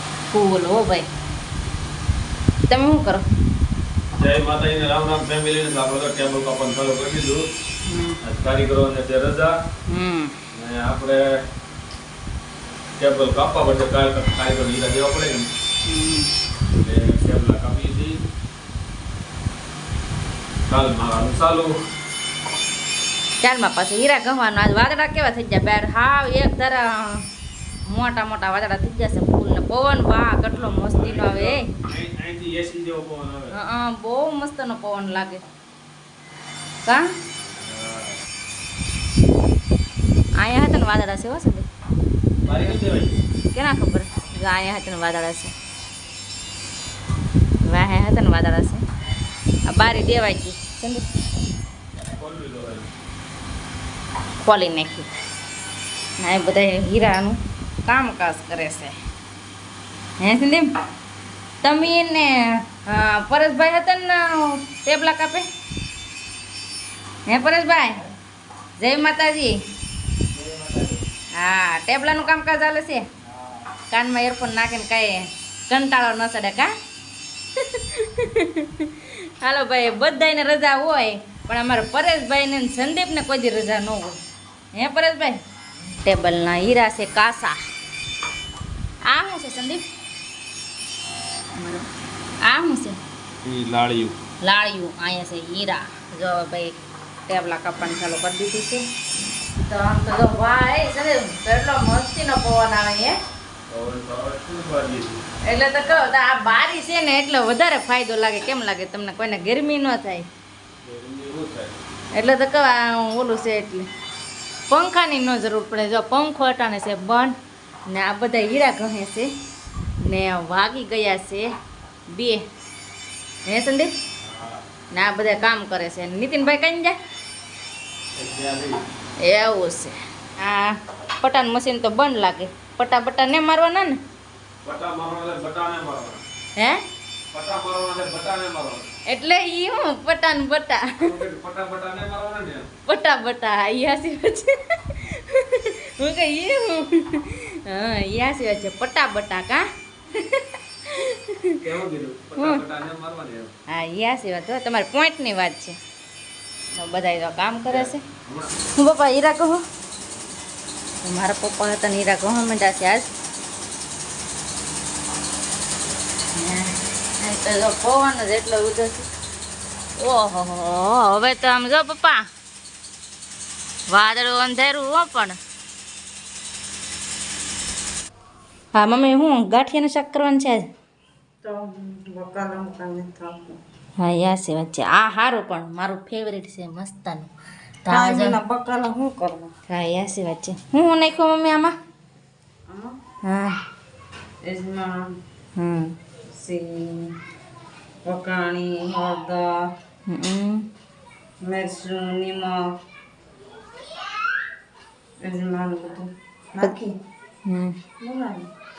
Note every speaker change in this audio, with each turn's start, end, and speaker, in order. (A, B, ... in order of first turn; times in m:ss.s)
0:00.3-0:01.1 A
0:02.7-0:03.2 A
0:04.2-0:07.5 B
0:07.9-0:08.2 A
0:08.2-0:09.5 B
0:09.9-0:10.3 A
0:10.5-0:11.2 B
0:13.0-0:15.5 B
0:15.8-0:16.3 A
0:16.7-0:18.1 B
0:20.7-0:21.7 B
0:23.4-0:27.2 A
0:27.9-0:31.7 A
0:30.5-0:33.5 B
0:33.5-0:35.4 A
0:37.5-0:38.2 B
0:40.4-0:41.6 A
0:42.4-0:43.2 B
0:43.5-0:45.5 A
0:47.6-0:48.8 A
0:49.6-0:51.0 A
0:52.2-0:52.9 B
0:54.4-0:55.1 A
0:56.2-0:59.0 A
1:00.2-1:00.7 A
1:01.6-1:05.5 A
1:07.3-1:08.0 A
1:08.8-1:09.6 A
1:11.3-1:13.0 A
1:13.9-1:16.7 A
1:17.6-1:24.2 A
1:24.7-1:25.4 A
1:26.0-1:27.6 A
1:29.0-1:29.8 A
1:31.6-1:31.8 A
1:32.4-1:33.0 A
1:33.4-1:34.1 B
1:34.4-1:38.8 A
1:39.6-1:43.2 A
1:43.7-1:45.2 B
1:45.4-1:50.2 A
1:50.8-1:51.8 B
1:52.1-1:53.9 A
1:54.7-1:57.3 A
1:57.9-1:59.3 A
2:00.0-2:01.5 A
2:02.1-2:02.4 A
2:03.4-2:03.9 A
2:04.2-2:04.6 B
2:04.9-2:07.0 A
2:08.2-2:08.8 B
2:09.2-2:14.0 A
2:14.6-2:16.2 B
2:16.6-2:16.8 A
2:17.3-2:18.9 B
2:19.1-2:20.8 A
2:21.0-2:22.7 B
2:22.8-2:31.6 A
2:31.6-2:33.5 B
2:33.7-2:35.8 A
2:36.7-2:38.0 A
2:37.7-2:38.5 B
2:38.8-2:39.6 A
2:41.0-2:43.1 A
2:46.3-2:49.1 A
2:50.0-2:52.2 A
2:53.9-2:55.4 A
2:58.7-3:00.6 A
3:01.4-3:03.6 C
3:04.0-3:07.3 A
3:07.8-3:08.4 A
3:07.9-3:09.5 C
3:09.7-3:11.7 A
3:12.7-3:13.0 C
3:13.2-3:13.6 A
3:14.4-3:15.2 C
3:15.6-3:15.9 A
3:16.3-3:17.1 C
3:18.0-3:19.5 C
3:20.1-3:20.6 A
3:21.4-3:22.6 C
3:25.2-3:27.0 C
3:27.4-3:27.7 A
3:28.0-3:28.5 C